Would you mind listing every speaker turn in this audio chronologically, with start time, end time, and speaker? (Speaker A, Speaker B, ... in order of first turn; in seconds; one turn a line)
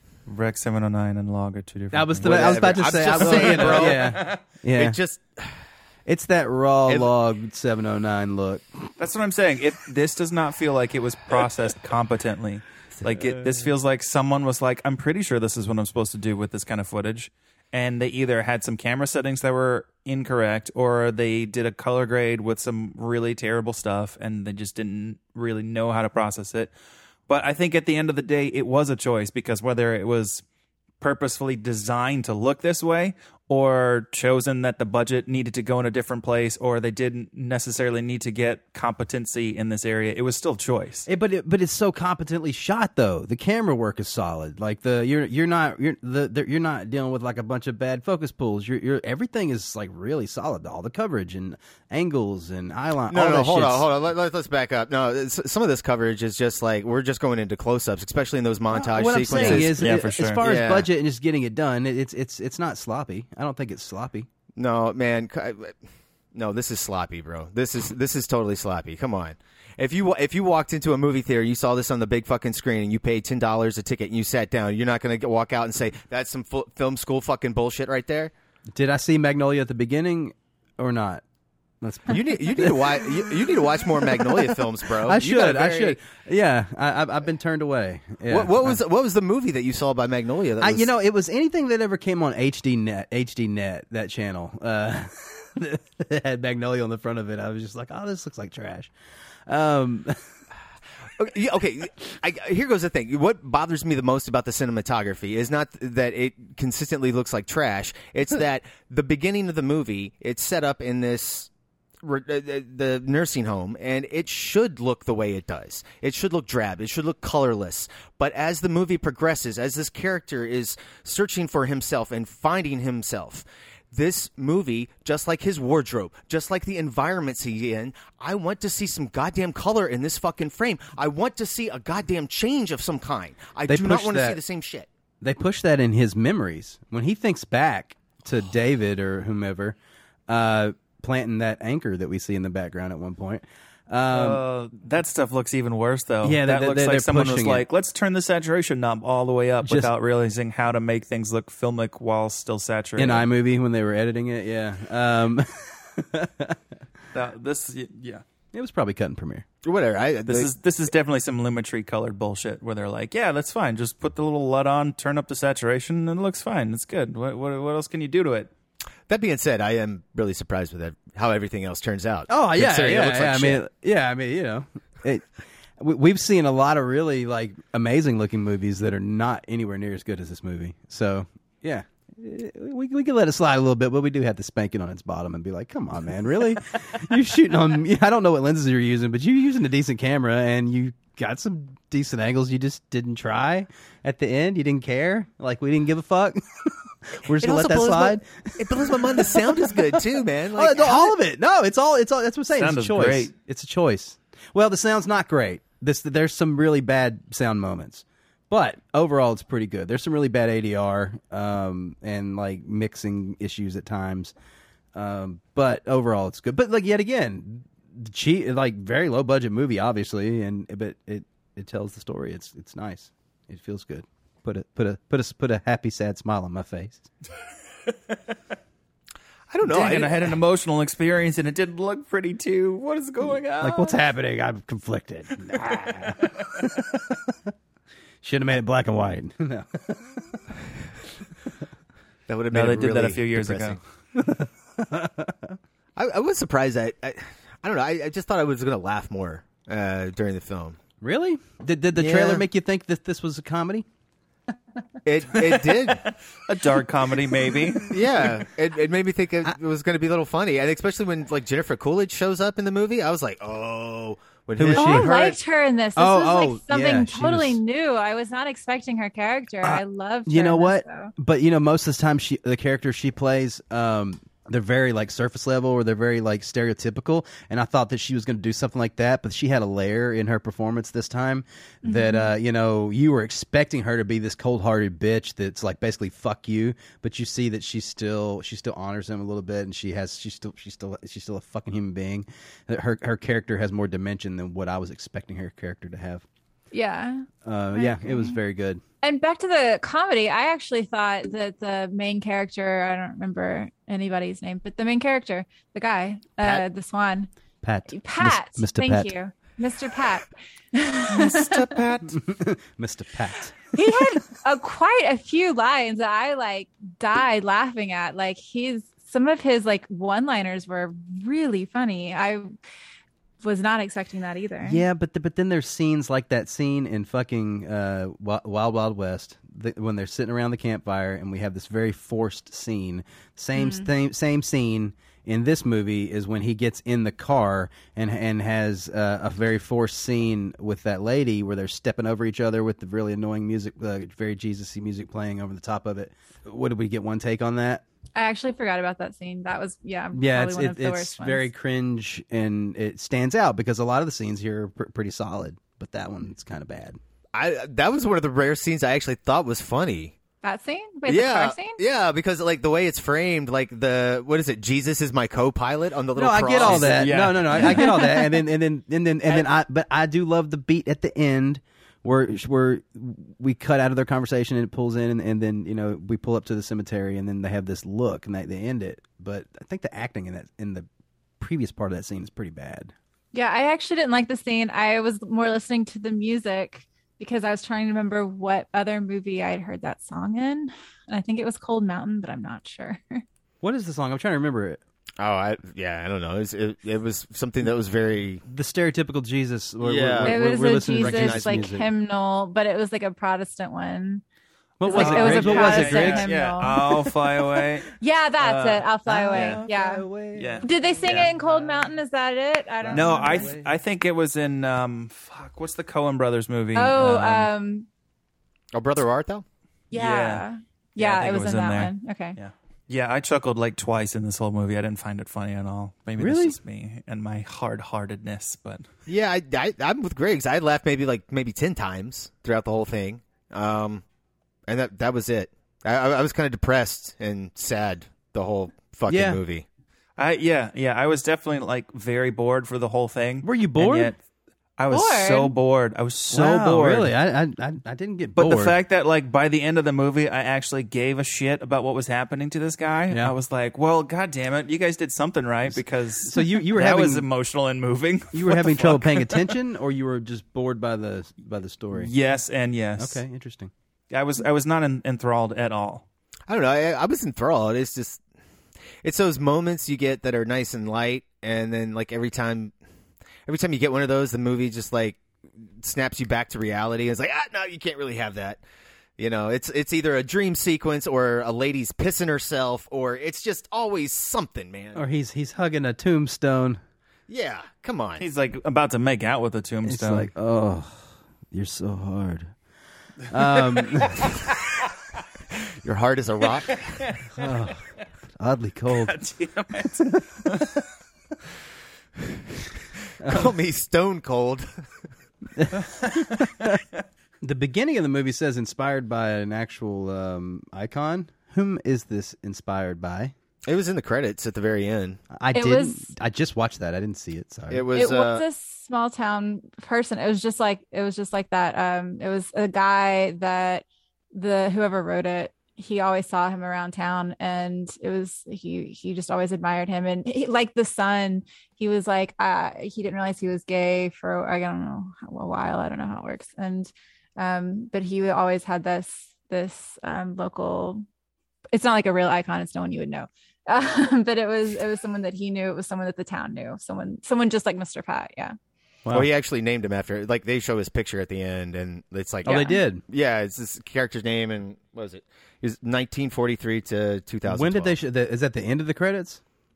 Speaker A: 0.3-4.4
Speaker B: 1.9-5.0
Speaker C: 2.2-5.6
Speaker B: 6.1-8.6
Speaker C: 6.9-7.1
Speaker A: 9.0-26.7
Speaker A: 27.3-30.4
Speaker A: 31.0-41.1
Speaker B: 41.1-53.9
Speaker C: 53.1-60.9
Speaker B: 58.7-64.3
Speaker A: 59.3-60.4
Speaker C: 64.6-65.8
Speaker C: 66.3-78.3
Speaker B: 78.7-81.2
Speaker B: 81.8-82.9
Speaker C: 82.1-86.0
Speaker B: 85.0-88.8
Speaker C: 88.3-90.9
Speaker B: 90.6-98.9
Speaker B: 99.5-100.2
Speaker C: 101.2-111.5
Speaker C: 112.0-134.9
Speaker B: 133.7-134.4
Speaker B: 135.2-139.8
Speaker B: 140.3-144.4
Speaker A: 144.1-153.3
Speaker B: 146.2-147.7
Speaker B: 149.6-149.9
Speaker B: 153.0-156.6
Speaker A: 157.1-158.2
Speaker B: 158.5-159.4
Speaker C: 159.6-160.5
Speaker A: 160.3-168.5
Speaker C: 169.1-173.6
Speaker B: 172.3-175.3
Speaker B: 175.8-200.0
Speaker C: 197.4-201.2
Speaker B: 200.6-214.3
Speaker A: 202.6-203.3
Speaker B: 214.9-227.1
Speaker C: 229.5-230.4
Speaker A: 229.6-234.0
Speaker B: 233.6-237.5
Speaker B: 238.2-240.4
Speaker C: 242.3-243.8
Speaker A: 242.5-243.8
Speaker B: 244.2-245.6
Speaker C: 246.0-250.8
Speaker B: 251.0-253.9
Speaker C: 252.0-252.5
Speaker C: 255.0-256.0
Speaker A: 255.4-258.0
Speaker C: 257.9-265.4
Speaker B: 264.6-265.4
Speaker D: 264.7-271.1
Speaker B: 266.0-267.6
Speaker B: 269.6-296.2
Speaker D: 281.8-282.3
Speaker D: 296.7-298.4
Speaker B: 297.4-298.8
Speaker D: 299.0-307.3
Speaker B: 307.6-309.1
Speaker D: 307.9-311.8
Speaker C: 311.1-312.2
Speaker B: 312.1-313.6
Speaker D: 313.7-322.5
Speaker D: 323.4-324.8
Speaker B: 324.6-347.8
Speaker D: 333.5-333.9
Speaker D: 348.2-351.5
Speaker B: 350.1-357.0
Speaker C: 357.3-360.2
Speaker D: 360.4-361.8
Speaker C: 361.1-367.3
Speaker B: 366.1-380.9
Speaker A: 366.6-368.0
Speaker B: 381.4-382.9
Speaker D: 383.3-393.2
Speaker B: 393.6-394.8
Speaker C: 395.2-398.4
Speaker B: 398.5-401.9
Speaker C: 399.8-401.7
Speaker D: 400.2-404.2
Speaker B: 404.8-406.3
Speaker D: 404.8-407.0
Speaker A: 404.9-409.6
Speaker D: 408.0-410.1
Speaker B: 409.1-412.0
Speaker A: 410.4-411.3
Speaker D: 410.6-413.5
Speaker B: 412.8-413.7
Speaker A: 412.9-417.5
Speaker D: 416.8-417.9
Speaker C: 418.7-419.4
Speaker D: 419.9-422.4
Speaker A: 419.9-420.4
Speaker A: 421.0-428.9
Speaker B: 426.2-426.6
Speaker C: 429.1-434.0
Speaker C: 434.7-439.7
Speaker B: 439.1-439.4
Speaker A: 440.2-444.2
Speaker B: 443.4-444.1
Speaker A: 444.8-447.1
Speaker D: 444.9-445.5
Speaker B: 446.3-448.8
Speaker A: 448.4-459.6
Speaker B: 455.7-457.3
Speaker B: 458.3-462.1
Speaker A: 461.9-463.2
Speaker B: 463.0-463.7
Speaker A: 464.1-466.1
Speaker C: 466.5-468.2
Speaker C: 469.0-472.7
Speaker C: 473.5-478.6
Speaker C: 479.2-485.0
Speaker B: 484.9-486.8
Speaker C: 487.3-488.2
Speaker A: 488.2-490.3
Speaker B: 489.9-492.5
Speaker B: 493.3-494.2
Speaker A: 493.8-494.3
Speaker C: 495.8-497.0
Speaker B: 497.4-497.9
Speaker B: 498.4-499.1
Speaker A: 498.9-500.7
Speaker B: 503.2-503.5
Speaker C: 503.2-504.8
Speaker B: 505.6-506.8
Speaker A: 506.0-506.4
Speaker B: 507.4-513.3
Speaker C: 513.7-515.2
Speaker B: 515.3-517.9
Speaker D: 515.5-516.1
Speaker C: 517.7-518.5
Speaker D: 517.9-541.0
Speaker D: 541.7-548.6
Speaker B: 549.0-549.3
Speaker C: 549.1-558.0
Speaker B: 552.5-553.0
Speaker D: 552.5-552.8
Speaker B: 557.5-559.4